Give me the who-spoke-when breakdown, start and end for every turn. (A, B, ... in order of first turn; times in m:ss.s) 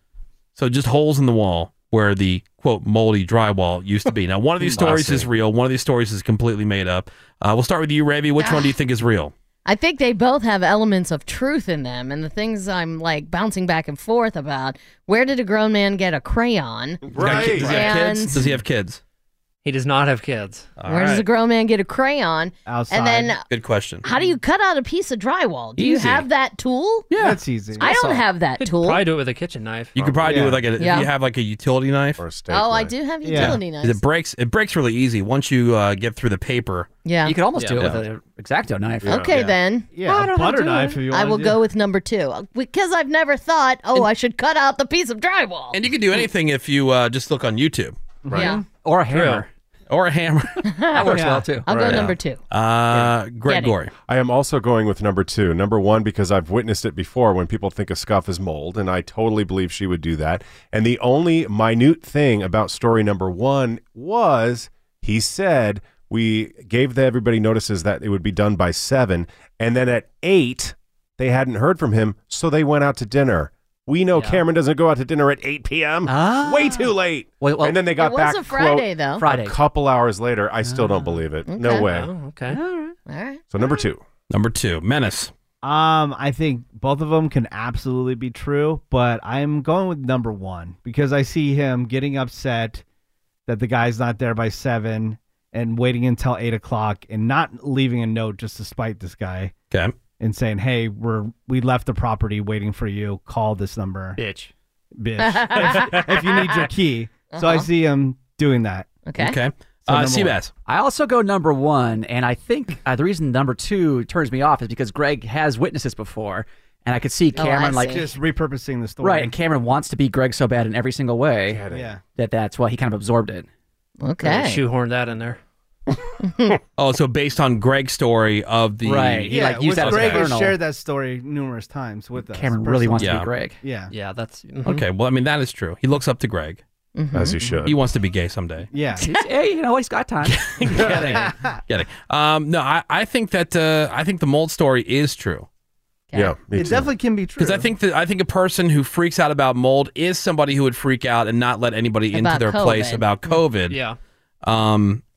0:00.6-0:09.3 A
0:04.7-0:05.3 B
0:08.4-0:08.7 C
0:09.6-0:18.5 C
0:17.1-0:18.0 B
0:17.2-0:19.0 A
0:19.6-0:20.7 D
0:20.8-0:21.3 A
0:20.9-0:23.4 C
0:22.6-0:23.3 E
0:23.5-0:24.1 A
0:24.0-0:27.1 C
0:25.8-0:26.3 A
0:27.1-0:28.2 F
0:27.2-0:27.9 E
0:27.8-0:29.0 C
0:28.6-0:30.0 D
0:30.0-0:30.5 B
0:30.0-0:32.2 A
0:30.2-0:30.6 E
0:30.8-0:31.1 C
0:32.2-0:32.9 B
0:32.5-0:34.0 C
0:33.2-0:33.6 E
0:33.4-0:36.9 A
0:37.0-0:37.4 C
0:37.2-0:39.3 F
0:37.6-0:37.9 D
0:37.8-0:38.0 A
0:39.0-0:39.3 B
0:39.1-0:40.3 C
0:39.3-0:41.6 E
0:40.1-0:41.0 F
0:41.1-0:45.8 C
0:45.7-0:48.0 A
0:48.2-0:48.6 E
0:48.3-0:48.6 C
0:48.6-0:49.5 F
0:49.1-0:49.4 D
0:49.9-0:50.7 A
0:50.6-0:52.4 C
0:50.9-0:52.0 F
0:51.1-0:51.5 E
0:51.9-0:53.9 A
0:53.4-0:53.7 C
0:54.1-1:22.1 B
1:14.1-1:14.4 D
1:16.1-1:16.9 F
1:17.4-1:17.9 F
1:17.9-1:19.3 C
1:19.2-1:19.6 F
1:20.6-1:21.2 F
1:21.5-1:21.9 C
1:21.9-1:22.6 D
1:22.5-1:23.0 F
1:23.1-1:23.6 C
1:23.5-1:24.0 B
1:24.3-1:25.3 A
1:25.6-1:32.8 E
1:33.5-1:39.5 E
1:40.2-1:44.2 E
1:44.2-1:44.5 F
1:45.0-1:48.9 E
1:45.2-1:46.5 C
1:47.3-1:47.7 C
1:49.1-1:49.4 C
1:49.2-1:50.5 A
1:49.9-1:50.4 E
1:50.7-1:58.1 F
1:57.4-1:58.0 C
1:57.9-1:59.4 E
1:59.0-2:01.6 F
2:01.4-2:01.9 B
2:01.7-2:02.0 E
2:02.2-2:03.4 F
2:04.0-2:04.6 C
2:04.2-2:05.4 D
2:06.2-2:06.6 C
2:06.8-2:10.3 A
2:08.8-2:10.6 F
2:09.3-2:13.9 E
2:12.3-2:13.6 F
2:13.0-2:13.3 A
2:13.9-2:14.8 D
2:14.6-2:16.6 A
2:17.0-2:17.4 C
2:17.1-2:17.8 B
2:17.6-2:18.7 A
2:18.7-2:19.1 E
2:19.0-2:21.3 F
2:20.2-2:25.4 A
2:21.1-2:21.6 E
2:26.1-2:26.9 B
2:26.5-2:27.7 E
2:27.4-2:33.8 A
2:32.1-2:33.4 C
2:33.7-2:34.0 D
2:34.4-2:35.0 A